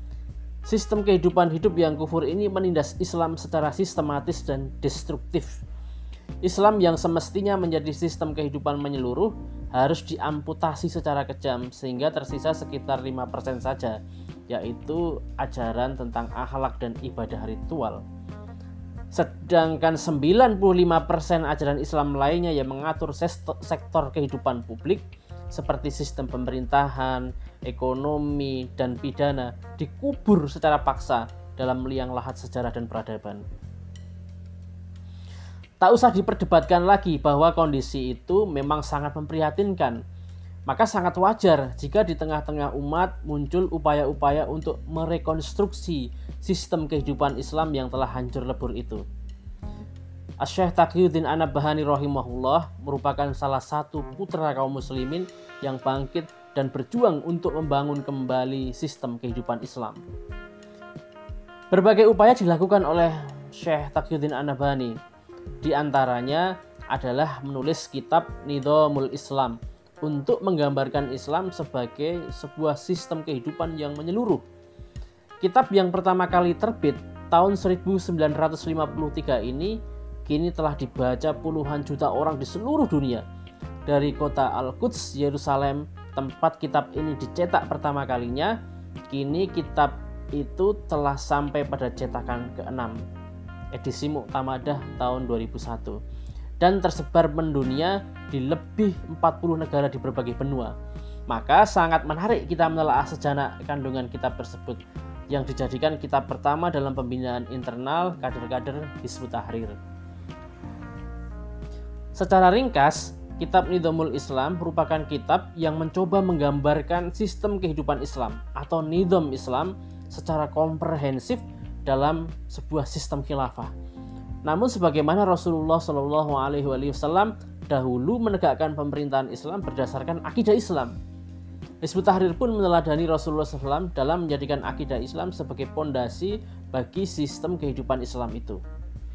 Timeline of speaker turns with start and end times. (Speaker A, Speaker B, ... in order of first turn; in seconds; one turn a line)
Speaker A: 0.7-5.6
Speaker A: 6.4-14.0
Speaker A: 14.5-18.0
Speaker A: 19.1-33.5
Speaker A: 35.8-40.0
Speaker A: 40.7-49.0
Speaker A: 50.4-60.1
Speaker A: 61.7-65.0
Speaker A: 65.6-74.4
Speaker A: 75.4-83.2
Speaker A: 83.9-88.5
Speaker A: 89.1-93.0
Speaker A: 93.7-96.0
Speaker A: 96.6-100.7
Speaker A: 101.3-104.8
Speaker A: 105.3-109.8
Speaker A: 112.2-123.7
Speaker A: 124.5-131.0
Speaker A: 131.8-138.6